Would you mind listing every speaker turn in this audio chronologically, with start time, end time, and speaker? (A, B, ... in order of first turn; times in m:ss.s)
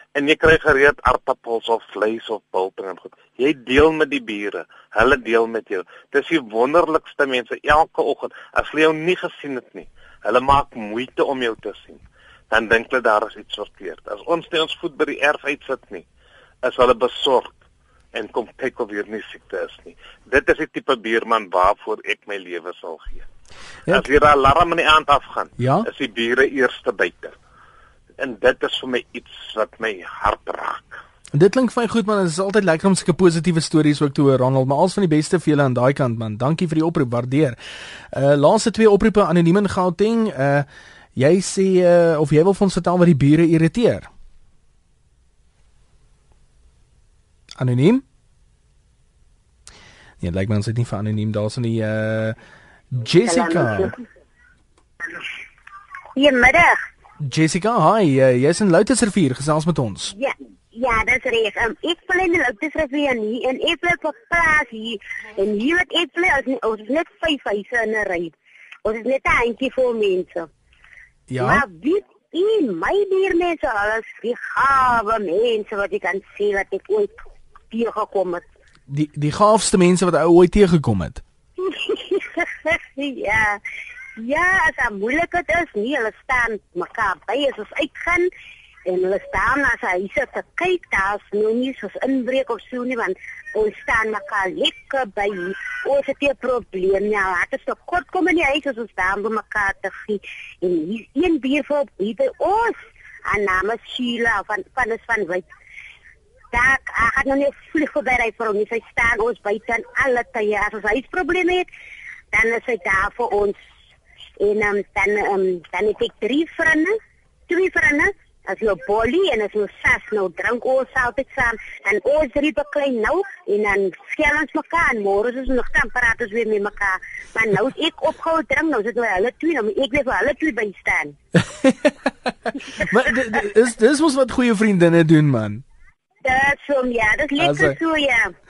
0:00.1-0:12.0 A
0:12.5-0:16.0 A
0:16.6-0:17.5 A
0:18.1-0:23.2 A
0:23.9-0:27.3 A
0:25.6-0:25.9 B
0:28.2-0:31.0 A
0:31.3-0:37.6 B
0:38.1-0:44.1 B
0:47.6-0:48.0 B
0:50.2-0:52.4 B
0:52.9-0:53.9 B
0:53.2-0:54.0 C
0:56.2-0:56.8 C
0:57.2-1:00.1 B
1:00.1-1:08.3 C
1:08.8-1:10.5 C
1:11.3-1:11.6 B
1:11.4-1:17.1 C
1:17.7-1:18.4 C
1:18.9-1:21.2 B
1:21.6-1:23.6 C
1:24.2-1:28.3 C
1:28.9-1:45.5 C
1:46.5-1:51.7 C
1:52.3-1:53.6 C
1:54.4-1:57.0 C
1:57.5-2:11.2 C
2:11.5-2:11.9 B
2:12.6-2:15.6 B
2:16.2-2:18.3 C
2:17.4-2:17.8 B